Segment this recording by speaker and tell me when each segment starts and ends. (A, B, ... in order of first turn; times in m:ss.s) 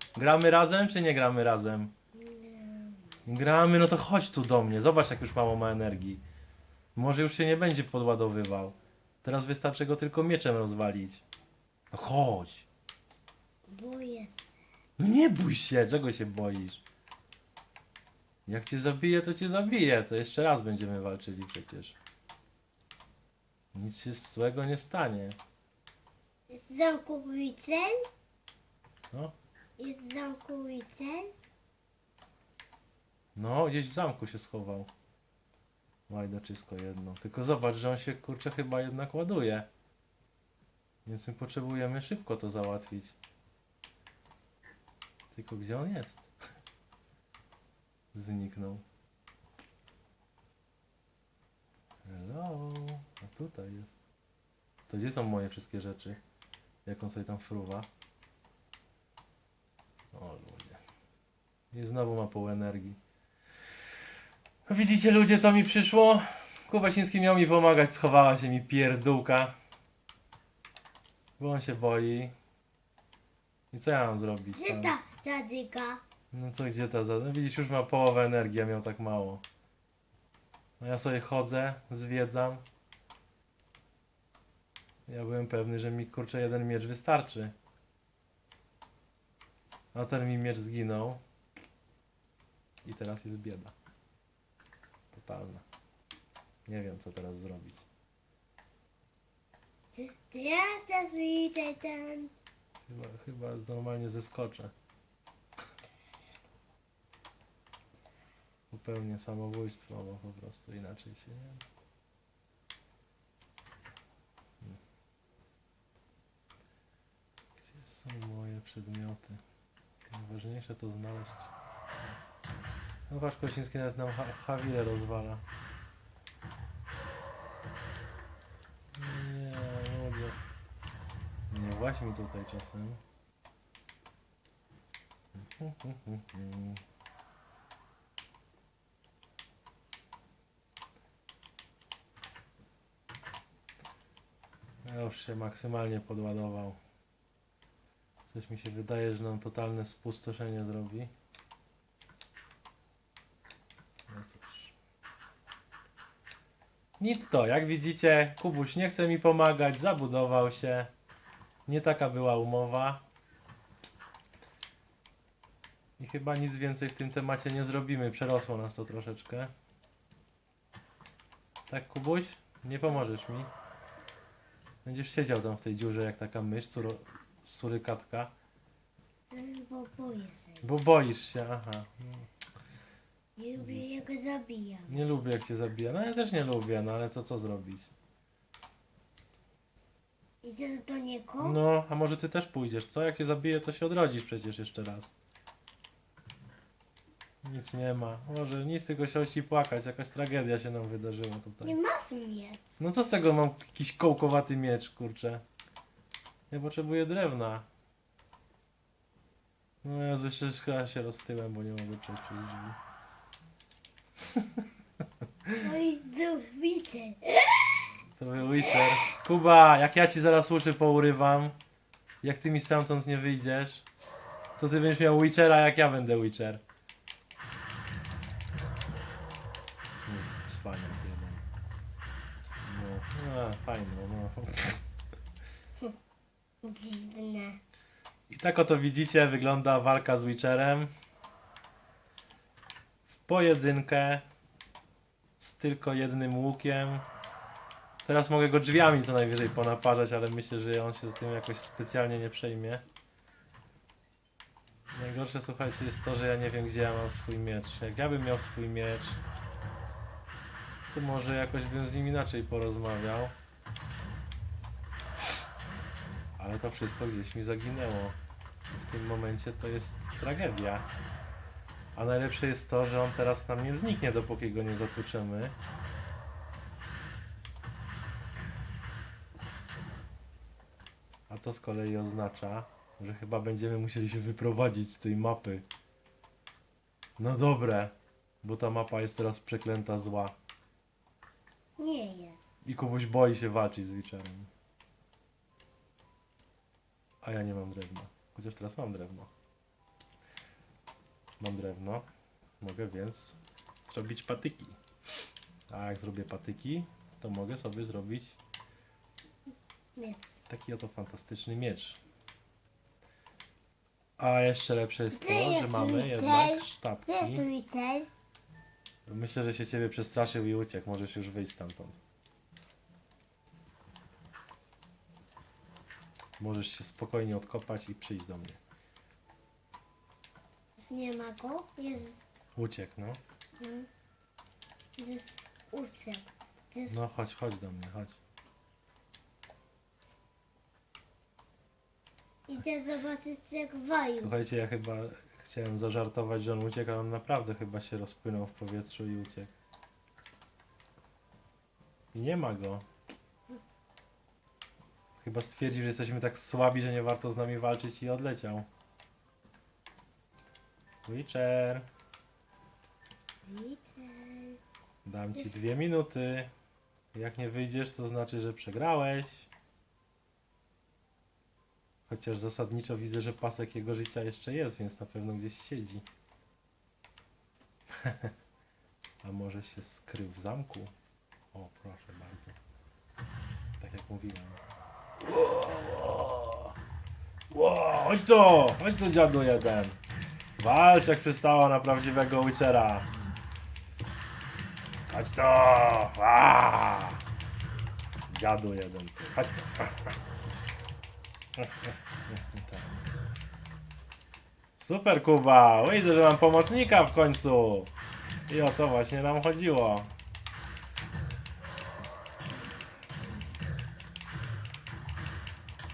0:00.1-0:01.9 A
0:02.1-0:03.2 B
0:03.2-0:06.2 A
0:06.9-0:11.2 A
0:11.9-0:12.6 A
0:13.7-0:14.5 B
0:15.0-0:16.8 A
0:18.4-0:22.0 A
0:23.7-0:25.4 A
0:26.5-0:28.0 B
0:29.8-0:31.3 B
0:33.3-0:34.9 A
0:36.1-0:39.7 A
0:41.0-0:43.1 A
0:45.3-0:46.3 A
0:48.1-0:48.8 A
0:52.0-0:54.0 A
0:54.9-0:56.2 A
0:56.8-0:57.9 A
1:00.1-1:00.8 A
1:01.7-1:03.0 A
1:04.7-1:09.5 A
1:11.4-1:12.3 A
1:13.7-1:15.0 A
1:14.5-1:16.0 B
1:16.3-1:19.4 A
1:20.8-1:22.6 A
1:25.1-1:27.5 A
1:29.9-1:31.2 A
1:32.8-1:33.7 A
1:35.1-1:35.6 A
1:36.6-1:37.8 A
1:39.9-1:42.3 B
1:42.9-1:44.7 A
1:48.7-1:51.6 A
1:57.6-1:59.4 A
2:00.1-2:01.5 A
2:03.1-2:05.4 A
2:08.9-2:10.4 A
2:11.5-2:13.0 A
2:15.3-2:16.8 A
2:24.8-2:26.8 A
2:28.3-2:31.1 A
2:34.1-2:34.7 A
2:37.0-2:40.9 A
2:41.6-2:43.0 A
2:46.0-2:49.5 A
2:51.7-2:53.5 A
2:54.8-2:58.3 A
2:59.3-3:00.7 B
3:00.6-3:02.3 A
3:03.4-3:05.0 B
3:03.6-3:04.1 A
3:04.9-3:07.9 A
3:10.4-3:11.6 B
3:11.4-3:15.1 A
3:17.4-3:21.8 A
3:21.6-3:22.8 B
3:22.8-3:25.4 A
3:26.5-3:27.6 A
3:29.8-3:32.8 A
3:34.3-3:34.6 A
3:35.6-3:37.7 B
3:38.1-3:41.6 A
3:38.6-3:39.0 B
3:42.2-3:43.8 A
3:44.6-3:46.6 A
3:50.1-3:51.4 A
3:52.6-3:54.8 A
3:56.6-3:57.6 B
3:58.3-4:00.9 A
4:03.1-4:04.2 A
4:05.4-4:07.0 A
4:08.0-4:12.8 A
4:14.9-4:19.2 A
4:20.9-4:23.3 A
4:26.4-4:28.2 A
4:28.7-4:30.9 A
4:31.9-4:35.6 A
4:41.3-4:45.6 A
4:47.2-4:50.4 A
4:51.8-4:52.5 B
4:52.6-4:54.5 A
4:57.2-4:59.3 A
5:01.4-5:02.0 A
5:02.6-5:04.8 A
5:05.7-5:08.4 A
5:10.0-5:10.4 B
5:10.5-5:12.0 A
5:14.2-5:17.4 A
5:15.1-5:18.1 B
5:19.1-5:22.0 A
5:26.4-5:28.6 A
5:30.8-5:32.3 B
5:32.6-5:33.2 A
5:33.6-5:33.9 B
5:35.0-5:37.0 B
5:36.9-5:38.2 A
5:42.5-5:44.3 B
5:44.1-5:49.5 A
5:52.1-5:52.8 A
5:55.2-5:58.7 A
6:01.0-6:01.8 A
6:03.4-6:04.6 B
6:05.0-6:06.5 A
6:07.1-6:09.5 A
6:12.1-6:16.0 A
6:17.9-6:18.3 A
6:19.2-6:20.9 A
6:21.5-6:22.6 A
6:23.8-6:24.6 A
6:25.2-6:26.7 A
6:27.5-6:30.0 A
6:30.6-6:33.1 A
6:35.1-6:37.2 A
6:38.3-6:40.2 A
6:41.6-6:42.9 A
6:44.8-6:47.9 A
6:48.5-6:50.1 A